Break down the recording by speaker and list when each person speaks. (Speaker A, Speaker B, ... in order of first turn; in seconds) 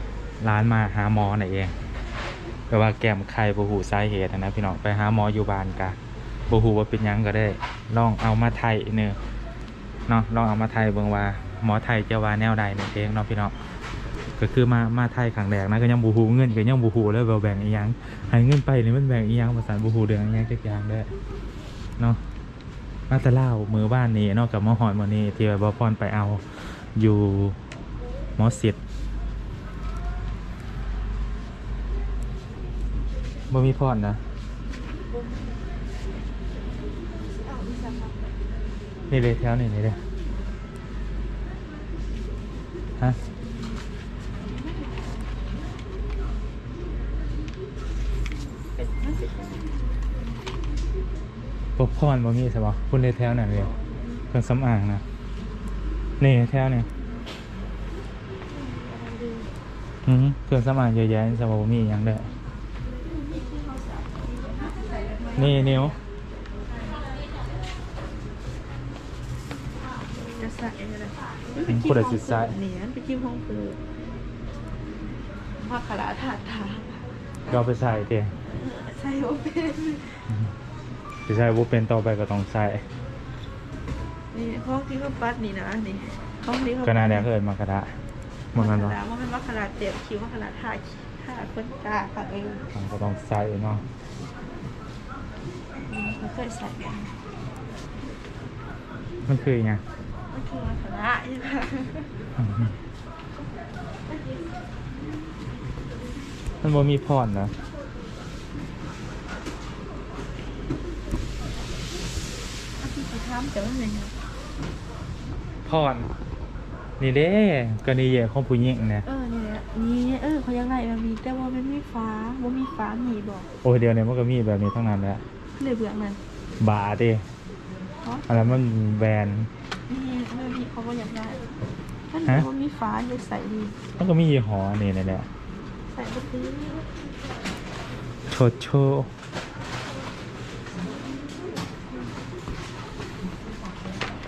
Speaker A: 0.4-1.7, 2.7-6.0, 6.5-9.2, 10.1-13.5, 14.4-21.1, 23.1-27.6, 28.4-28.8, 33.5-34.2, 39.1-40.0, 51.8-53.7, 54.3-55.0, 56.2-56.9, 60.0-62.3, 65.3-66.0, 71.7-72.5, 77.5-78.3, 81.3-82.8, 86.8-88.0, 88.5-89.0, 92.7-93.8, 99.3-99.8, 106.6-107.5, 115.7-116.1, 117.0-119.0, 123.6-125.2, 126.6-127.2, 128.3-129.5, 134.0-135.3, 138.3-139.1
Speaker B: 37.3-38.2, 44.4-45.3, 48.8-49.7, 53.5-54.2, 58.5-59.5, 63.0-66.0, 70.3-73.8, 75.6-77.0, 78.4-80.3, 84.3-87.3, 88.5-92.7, 95.8-97.1, 100.3-102.1, 104.1-104.5, 112.8-114.2, 119.0-123.5, 125.5-126.2, 128.0-128.5, 129.9-131.4, 132.1-133.8, 135.9-136.9